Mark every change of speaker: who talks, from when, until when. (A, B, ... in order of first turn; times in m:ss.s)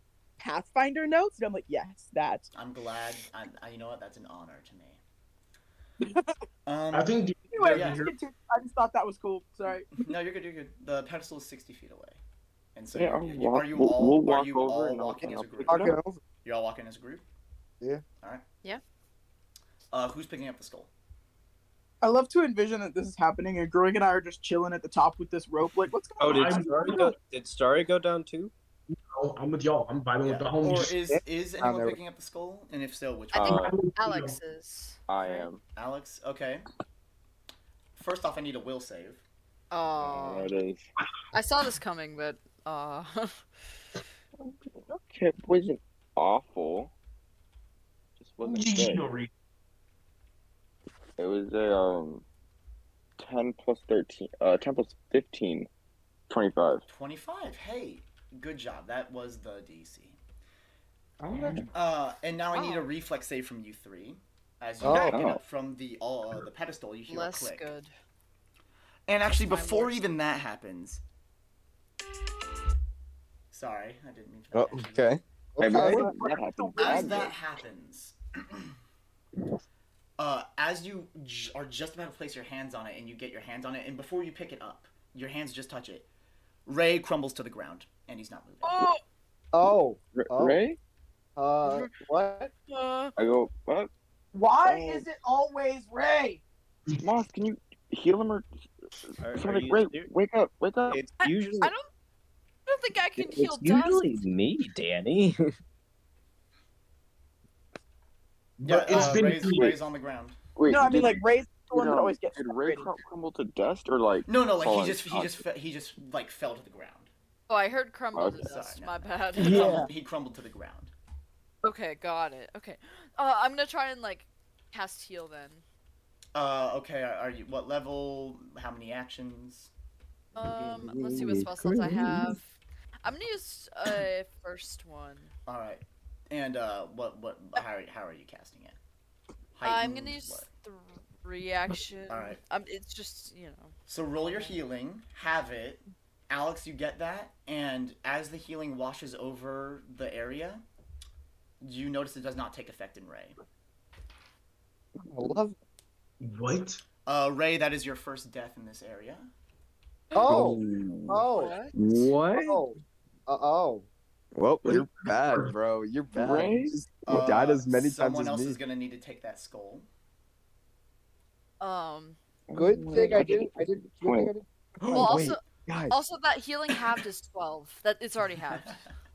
0:00.4-0:02.5 A
0:02.5-0:05.0 B
0:06.6-0:07.1 B
0:06.9-0:08.1 C
0:07.5-0:10.0 A
0:07.6-0:08.0 B
0:10.0-0:12.2 B
0:12.8-0:17.2 B
0:13.0-0:16.0 D
0:15.7-0:16.2 E
0:19.9-0:20.9 B
0:22.0-0:27.0 A
0:26.2-0:28.5 F
0:26.2-0:27.1 C
0:28.9-0:30.9 C
0:30.2-0:33.6 B
0:31.0-0:32.0 E
0:33.3-0:35.5 G
0:33.4-0:33.8 D
0:33.6-0:34.4 C
0:35.1-0:35.6 D
0:35.8-0:36.6 B
0:38.0-0:39.2 B
0:39.7-0:40.6 G
0:40.0-0:40.8 D
0:41.3-0:43.5 G
0:44.4-0:46.9 D
0:48.2-0:49.1 D
0:48.4-0:49.3 C
0:51.2-0:52.2 D
0:53.2-0:55.7 D
0:56.3-0:56.8 D
0:56.9-1:00.2 B
1:01.3-1:01.7 D
1:01.7-1:07.7 B
1:02.5-1:02.9 G
1:04.8-1:05.2 E
1:04.8-1:05.4 D
1:07.1-1:07.9 G
1:09.1-1:11.0 B
1:09.3-1:10.0 G
1:13.5-1:15.2 B
1:14.5-1:16.0 H
1:15.6-1:16.2 E
1:15.6-1:17.4 D
1:15.8-1:17.3 A
1:16.8-1:18.7 B
1:20.2-1:26.1 B
1:26.6-1:28.9 B
1:28.6-1:29.0 G
1:29.5-1:30.6 E
1:30.1-1:30.8 D
1:31.4-1:32.5 E
1:31.6-1:31.9 G
1:32.7-1:33.1 G
1:33.2-1:33.9 D
1:34.3-1:36.4 A
1:34.6-1:35.1 D
1:37.0-1:38.5 D
1:39.2-1:40.1 F
1:39.3-1:41.0 D
1:40.9-1:41.7 F
1:41.2-1:41.9 G
1:42.7-1:44.2 G
1:43.2-1:45.4 F
1:48.6-1:49.7 C
1:48.6-1:50.4 B
1:48.9-1:49.7 D
1:50.6-1:55.4 D
1:50.6-1:52.9 A
1:54.3-1:57.1 B
1:57.5-1:59.9 G
1:58.1-1:58.5 D
1:58.4-2:00.9 B
2:01.6-2:05.6 G
2:06.4-2:09.7 B
2:10.4-2:15.3 G
2:15.5-2:18.8 B
2:19.5-2:20.5 B
2:19.6-2:24.6 G
2:22.1-2:22.4 B
2:23.9-2:30.6 B
2:31.6-2:33.4 B
2:35.0-2:35.6 E
2:36.2-2:36.8 C
2:37.1-2:39.3 B
2:40.1-2:40.5 G
2:40.2-2:41.5 E
2:40.3-2:41.1 D
2:41.3-2:41.8 G
2:41.8-2:42.6 H
2:42.3-2:43.9 E
2:44.4-2:48.6 H
2:44.6-2:45.5 C
2:46.1-2:46.7 D
2:47.1-2:49.9 B
2:51.6-2:52.2 G
2:52.5-2:54.3 D
2:52.5-2:55.2 E
2:54.9-2:56.0 H
2:54.9-2:58.8 G
2:58.5-2:58.8 B